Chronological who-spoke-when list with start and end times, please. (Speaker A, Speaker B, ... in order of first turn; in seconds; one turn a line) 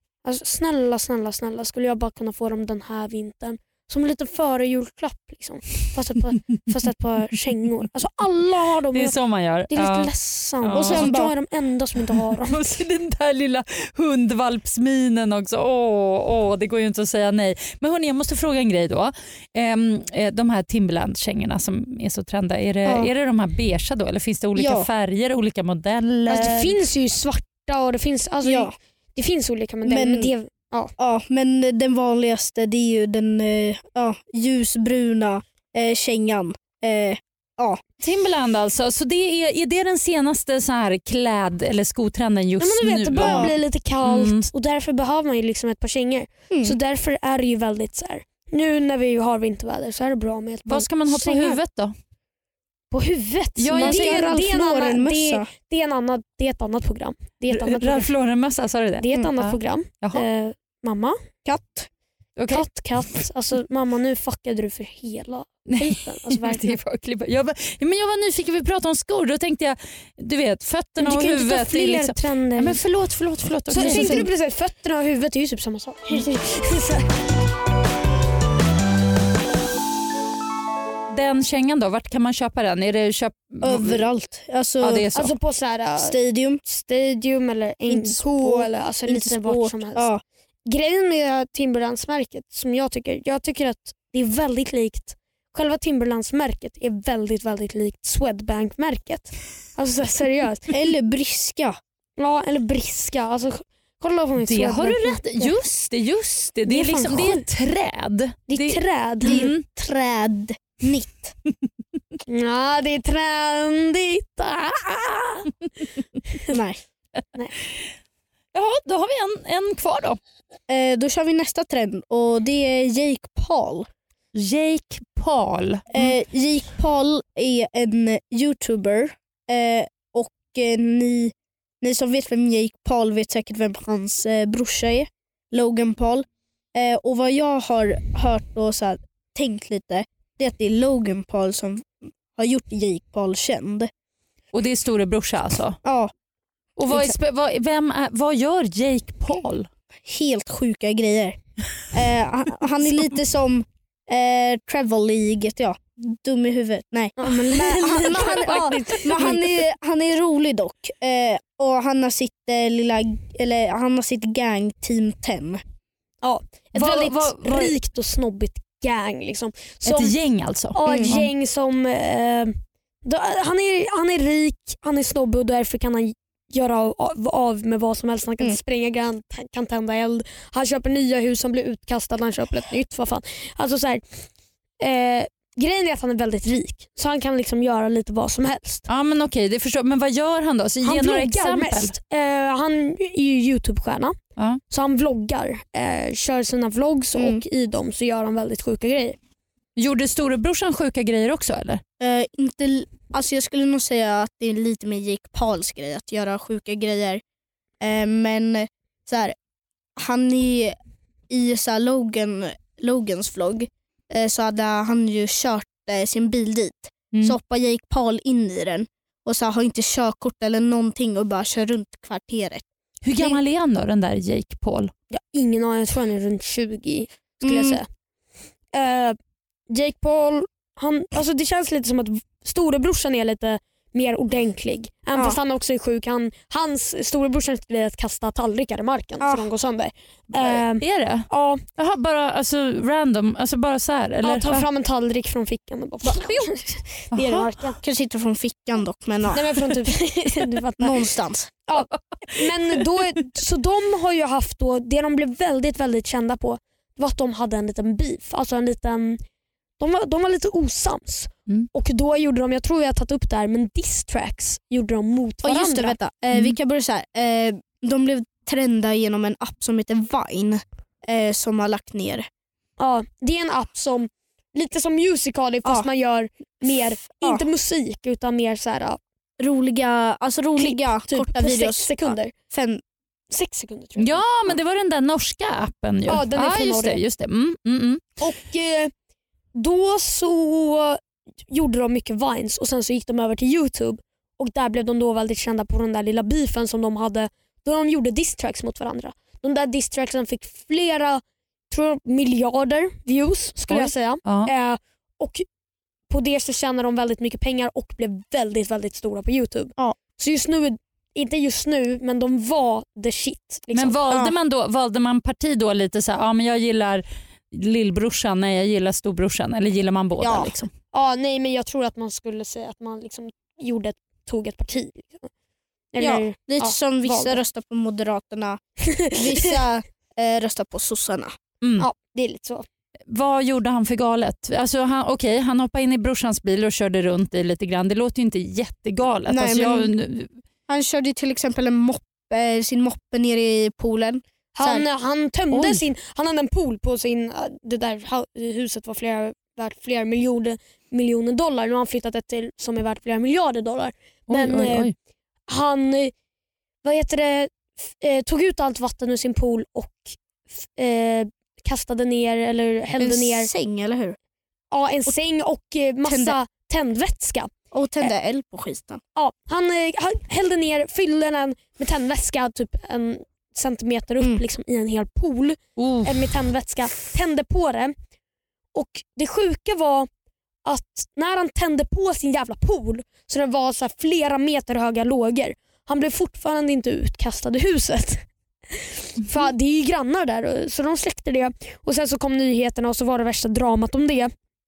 Speaker A: 0.2-9.2
Speaker B: 8.9-10.1
Speaker A: 9.7-12.6
Speaker B: 10.6-11.1
Speaker C: 10.7-11.3
Speaker B: 12.5-26.8
Speaker C: 24.6-24.9
Speaker A: 26.3-30.9
Speaker C: 28.4-28.7
Speaker C: 29.9-30.3
Speaker C: 31.0-37.8
Speaker B: 38.0-44.5
Speaker A: 42.6-51.5
Speaker C: 43.2-43.5
Speaker C: 46.5-46.8
Speaker B: 50.7-51.9
Speaker A: 52.9-58.1
Speaker B: 53.6-54.4
Speaker C: 53.8-55.5
Speaker B: 57.5-60.2
Speaker A: 59.0-61.2
Speaker C: 61.4-61.9
Speaker B: 62.4-62.7
Speaker A: 62.5-66.8
Speaker B: 65.7-74.3
Speaker A: 71.0-72.8
Speaker A: 73.7-77.0
Speaker C: 73.8-74.3
Speaker B: 81.1-84.1
Speaker C: 83.6-85.1
Speaker B: 84.8-85.3
Speaker A: 85.2-90.1
Speaker C: 86.0-86.6
Speaker C: 87.9-90.2
Speaker A: 90.7-100.7
Speaker C: 100.7-101.8
Speaker A: 102.2-105.5
Speaker B: 104.4-109.6
Speaker A: 106.7-107.5
Speaker A: 108.5-109.4
Speaker C: 109.2-111.3
Speaker A: 112.3-115.5
Speaker C: 116.5-116.8
Speaker B: 118.5-120.2
Speaker C: 120.7-123.9
Speaker B: 124.3-126.1
Speaker C: 125.9-143.9
Speaker B: 144.5-145.8
Speaker C: 145.8-146.1
Speaker B: 146.8-149.7
Speaker C: 150.1-165.6
Speaker A: 157.2-159.4
Speaker A: 166.2-170.2
Speaker B: 166.7-167.8
Speaker B: 169.8-171.3
Speaker A: 170.7-184.1
Speaker C: 170.8-171.1
Speaker A: 184.8-188.8
Speaker B: 188.9-191.9
Speaker A: 190.8-194.2
Speaker A: 194.7-199.2
Speaker C: 197.1-197.4
Speaker B: 199.8-201.8
Speaker C: 202.0-207.2
Speaker C: 207.8-209.3
Speaker C: 209.9-210.8
Speaker C: 211.3-222.6
Speaker B: 223.0-224.9
Speaker A: 225.1-227.8
Speaker C: 227.4-227.8
Speaker A: 228.7-229.2
Speaker A: 229.7-241.6
Speaker C: 235.1-235.4
Speaker C: 239.2-239.5
Speaker B: 240.3-244.7
Speaker A: 244.2-247.8
Speaker C: 246.0-246.5
Speaker B: 247.1-247.4
Speaker C: 247.1-249.6
Speaker A: 249.3-251.1
Speaker C: 250.8-251.5
Speaker A: 251.7-259.2
Speaker A: 259.8-265.9
Speaker C: 265.4-272.3
Speaker B: 266.3-266.6
Speaker A: 272.8-279.0
Speaker C: 279.4-282.8
Speaker A: 280.6-282.3
Speaker A: 283.3-284.6
Speaker B: 284.0-288.0
Speaker A: 286.1-287.0
Speaker A: 288.2-288.9
Speaker A: 289.5-305.4
Speaker B: 303.7-304.5
Speaker A: 306.1-313.9
Speaker B: 313.7-320.7
Speaker C: 314.1-314.3
Speaker C: 320.2-320.6
Speaker A: 320.9-325.3
Speaker A: 325.9-327.4
Speaker C: 326.0-328.6
Speaker A: 329.0-329.5
Speaker C: 329.1-331.3
Speaker B: 331.6-331.9
Speaker A: 331.8-332.6
Speaker B: 333.1-340.3
Speaker C: 339.3-339.9
Speaker C: 340.7-344.8
Speaker A: 344.5-354.9
Speaker B: 345.5-345.8
Speaker B: 354.3-354.9
Speaker A: 355.5-356.1
Speaker A: 356.8-363.5
Speaker C: 363.0-364.2
Speaker A: 364.7-367.5
Speaker C: 366.1-366.4
Speaker C: 367.7-369.0
Speaker A: 369.1-377.9
Speaker B: 375.8-376.3
Speaker A: 378.7-380.1
Speaker A: 380.6-394.3